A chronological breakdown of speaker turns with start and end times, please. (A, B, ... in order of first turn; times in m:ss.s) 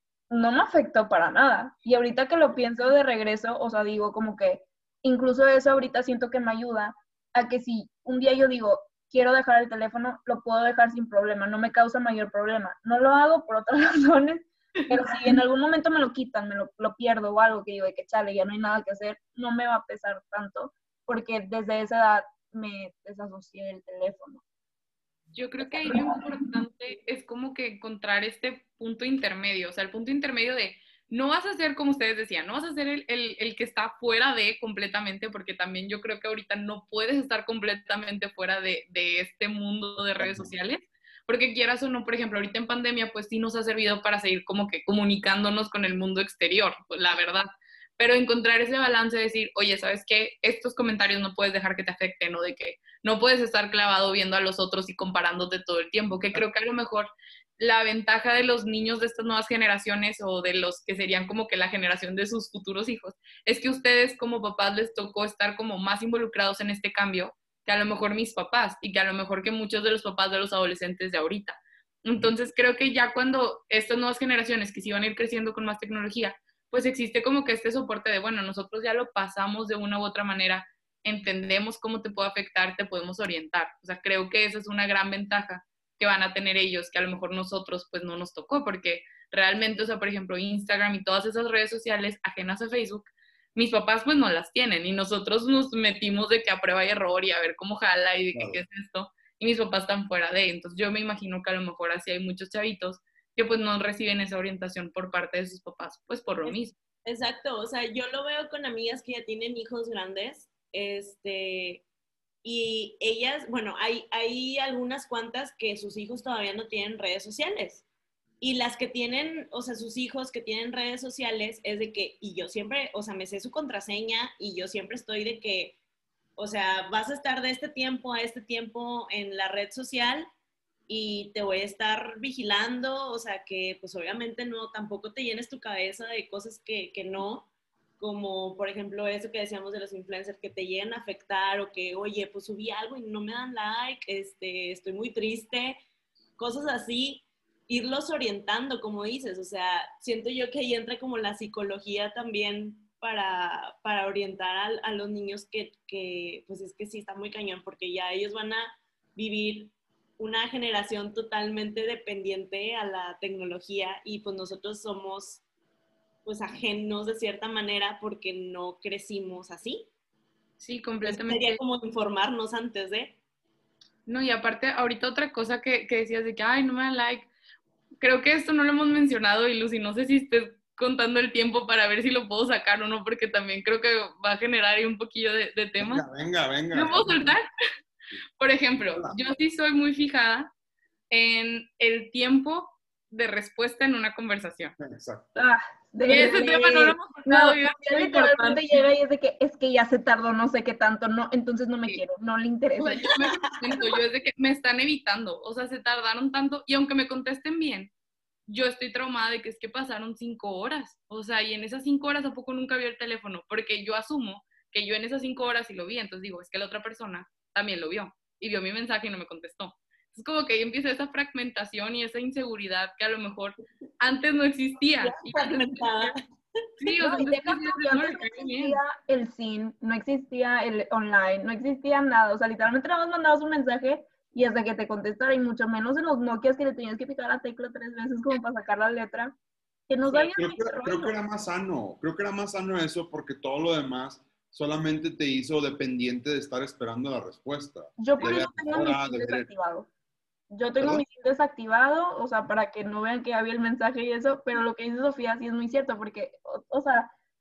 0:00.3-0:24.4 A
0:25.3-1:46.8 B
0:25.6-0:26.2 A
0:40.2-0:40.5 C
1:38.3-1:38.6 C
1:46.4-1:51.8 D
1:52.4-1:57.8 D
1:58.4-2:05.8 D
2:06.4-2:10.3 D
2:10.9-2:17.5 D
2:18.0-2:25.8 D
2:26.4-2:45.4 D
2:46.2-2:49.9 D
2:50.6-2:51.6 B
2:51.0-2:53.2 D
2:54.1-2:57.3 B
2:58.0-3:06.0 B
3:05.8-3:07.4 C
3:06.7-3:07.5 B
3:08.4-3:10.5 B
3:08.8-3:09.2 C
3:11.1-3:14.8 B
3:14.8-3:15.4 C
3:15.4-3:23.1 A
3:16.1-3:18.8 B
3:22.8-3:27.9 B
3:28.5-3:46.1 B
3:45.0-3:46.2 D
3:46.8-3:48.8 B
3:47.0-3:59.4 A
3:59.9-4:01.1 A
4:00.4-4:09.5 C
4:08.0-4:09.9 A
4:10.5-4:17.1 A
4:10.8-4:11.0 C